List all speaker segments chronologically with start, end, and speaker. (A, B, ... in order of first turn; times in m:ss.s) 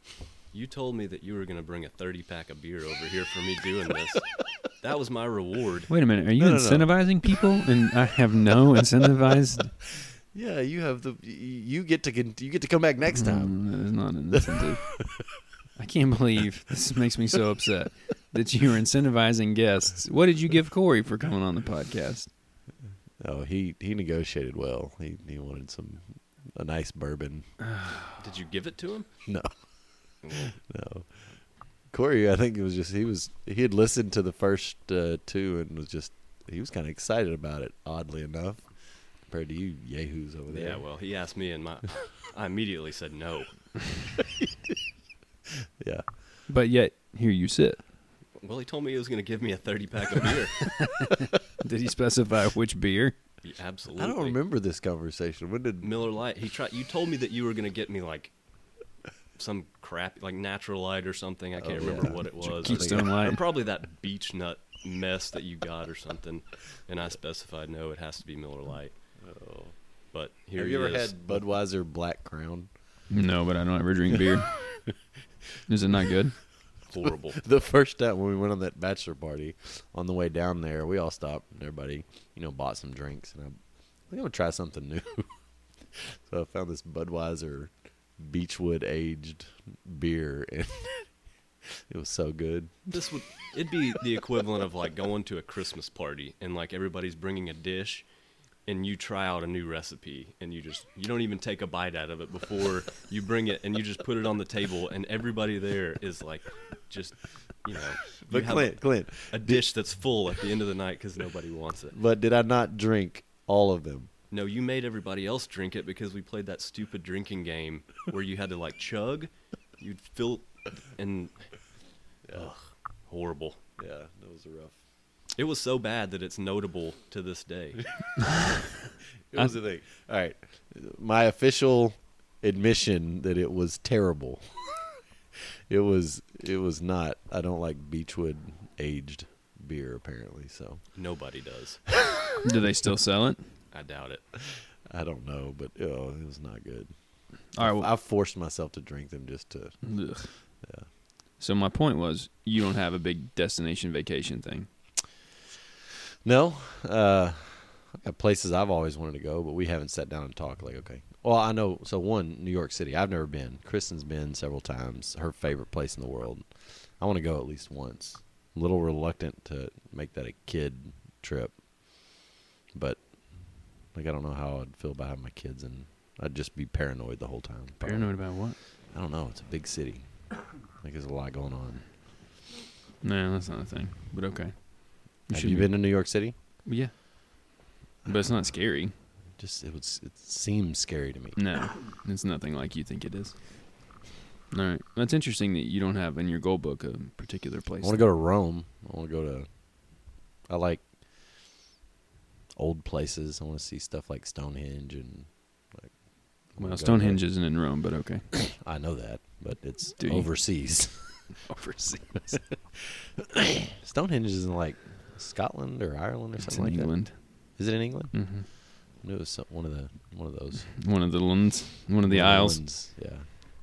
0:00.5-0:05.9 A
0:05.9-0:09.8 B
0:06.4-0:07.4 C
0:10.3-0:14.1 C
0:13.2-0:15.2 B
0:15.8-0:22.3 B
0:23.2-0:27.6 C
0:28.2-0:29.4 A
0:29.3-0:41.0 C
0:30.2-0:30.7 A
0:40.5-0:44.0 A
0:45.8-0:46.2 C
0:46.5-0:47.9 B
0:48.4-0:51.0 A
0:50.8-0:51.1 B
0:51.6-0:53.2 B
0:53.4-0:54.4 A
0:54.0-0:56.0 C
0:55.8-1:09.2 A
1:01.6-1:03.4 C
1:02.6-1:03.4 B
1:09.2-1:09.8 C
1:10.1-1:11.4 A
1:10.6-1:12.7 C
1:13.1-1:14.8 B
1:15.7-1:16.4 B
1:16.9-1:17.4 A
1:17.4-1:31.2 C
1:31.9-1:33.2 C
1:32.9-1:38.1 A
1:38.6-1:52.0 A
1:48.2-1:50.0 C
1:51.9-1:54.1 C
1:54.3-2:01.8 A
2:02.3-2:02.6 C
2:02.3-2:03.6 A
2:03.8-2:04.8 C
2:05.4-2:08.0 A
2:09.3-2:14.8 C
2:15.7-2:21.3 C
2:21.0-2:21.9 A
2:22.4-2:23.5 B
2:23.7-2:24.2 A
2:24.9-2:30.9 C
2:27.5-2:27.9 B
2:29.8-2:30.6 B
2:31.4-2:34.7 B
2:36.2-3:01.8 C
2:57.8-2:58.6 B
3:03.0-3:06.9 B
3:05.3-3:06.4 C
3:08.1-3:08.9 B
3:09.4-3:11.4 C
3:11.4-3:14.0 B
3:14.5-3:18.0 B
3:17.8-3:21.0 C
3:22.6-3:27.4 C
3:26.6-3:28.4 B
3:28.6-3:31.3 C
3:30.0-3:32.5 B
3:33.4-3:40.8 C
3:36.4-3:38.5 B
3:40.8-3:42.6 B
3:42.0-3:43.3 C